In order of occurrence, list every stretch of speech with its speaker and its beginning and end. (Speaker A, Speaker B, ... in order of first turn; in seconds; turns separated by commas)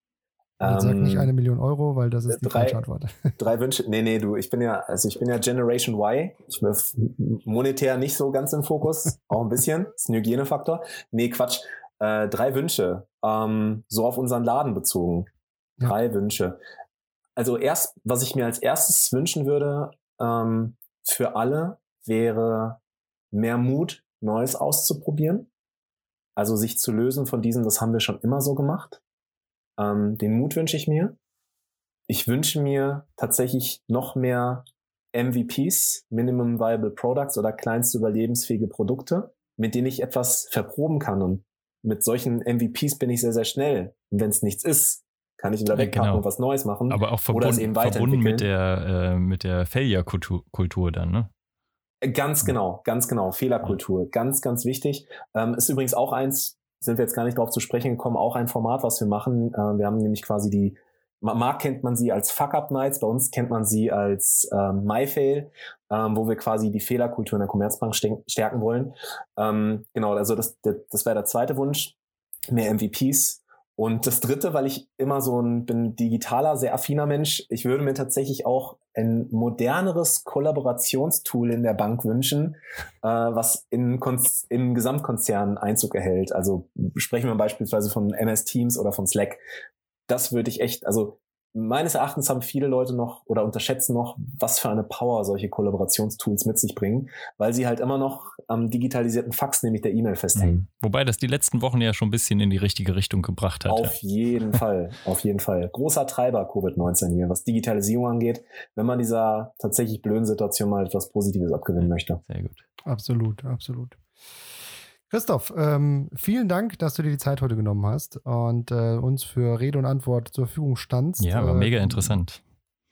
Speaker A: 0.6-1.3, Speaker B: 0.6-3.3, Speaker A: 2.3-2.8, Speaker A: 3.4-15.3, Speaker A: 15.8-16.6, Speaker A: 17.4-22.8, Speaker A: 23.3-25.5, Speaker A: 26.4-29.0, Speaker A: 29.8-31.1, Speaker A: 32.1-48.5, Speaker C: 45.7-46.2, Speaker C: 46.9-51.3, Speaker A: 52.0-72.0, Speaker A: 72.5-89.4, Speaker A: 90.1-100.6, Speaker C: 100.4-103.9, Speaker A: 103.7-112.2, Speaker C: 112.3-112.6, Speaker B: 112.9-114.0, Speaker B: 115.1-122.2, Speaker C: 121.2-122.4